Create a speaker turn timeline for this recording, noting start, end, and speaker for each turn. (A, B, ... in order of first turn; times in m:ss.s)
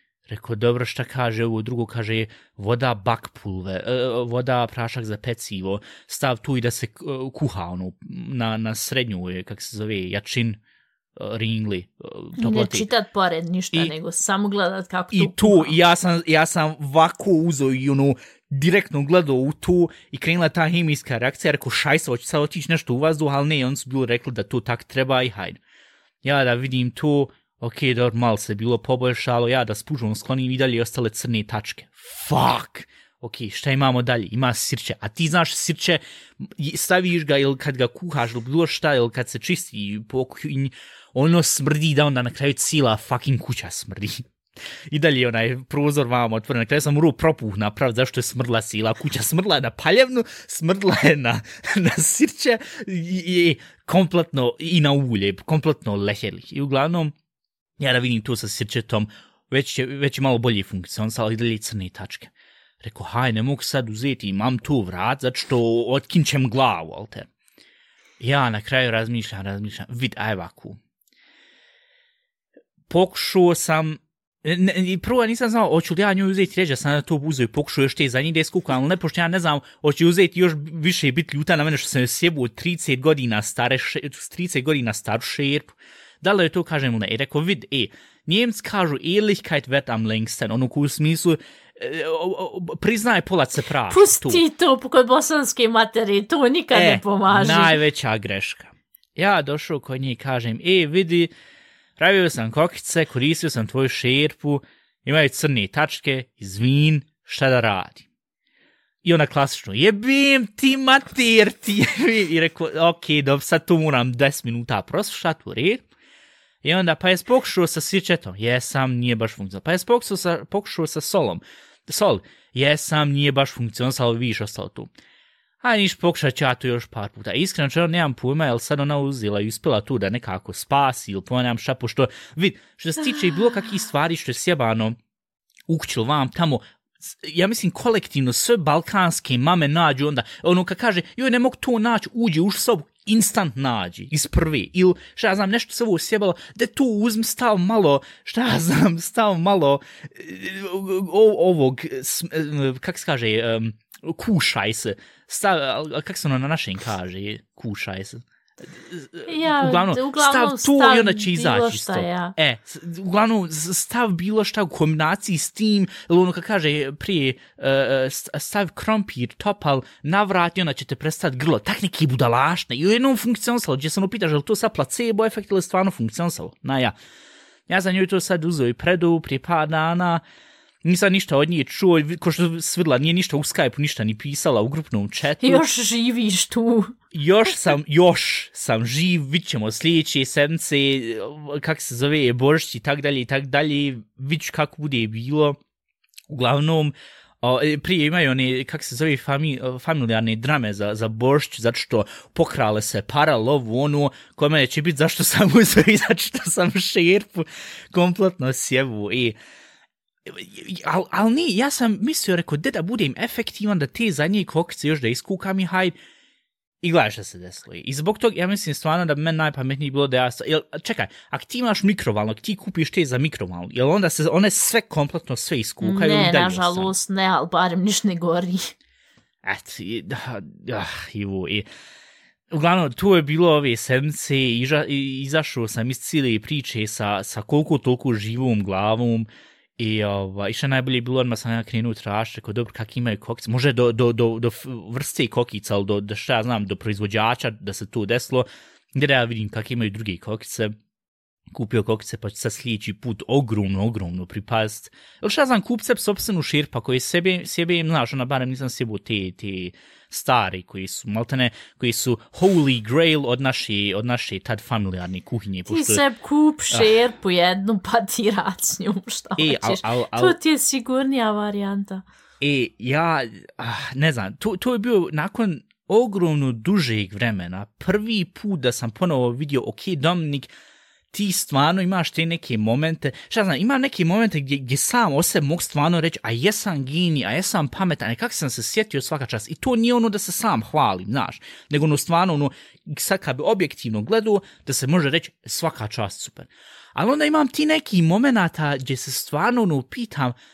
0:00.3-0:10.6 A
0:11.2-0:12.9 A
0:12.4-0:15.8 B
0:15.1-0:25.6 A
0:26.2-0:57.1 A
0:57.8-1:07.3 A
1:08.2-1:10.8 A
1:12.9-1:34.4 A
1:33.9-1:37.8 B
1:36.7-1:41.3 A
1:42.0-1:48.1 A
1:49.0-1:55.8 A
1:56.6-2:04.9 A
2:05.6-2:15.0 A
2:15.7-2:57.0 A
2:39.3-2:42.4 B
2:57.7-3:00.2 A
3:00.8-3:05.6 A
3:05.4-3:07.0 B
3:07.1-3:15.6 A
3:16.3-3:29.4 A
3:30.3-3:36.0 A
3:36.8-3:46.9 A
3:45.8-3:48.7 B
3:49.4-3:51.7 A
3:52.5-4:10.8 A
4:11.5-4:26.0 A
4:25.7-4:32.0 B
4:29.4-4:30.4 A
4:32.4-4:40.5 A
4:41.1-5:00.4 A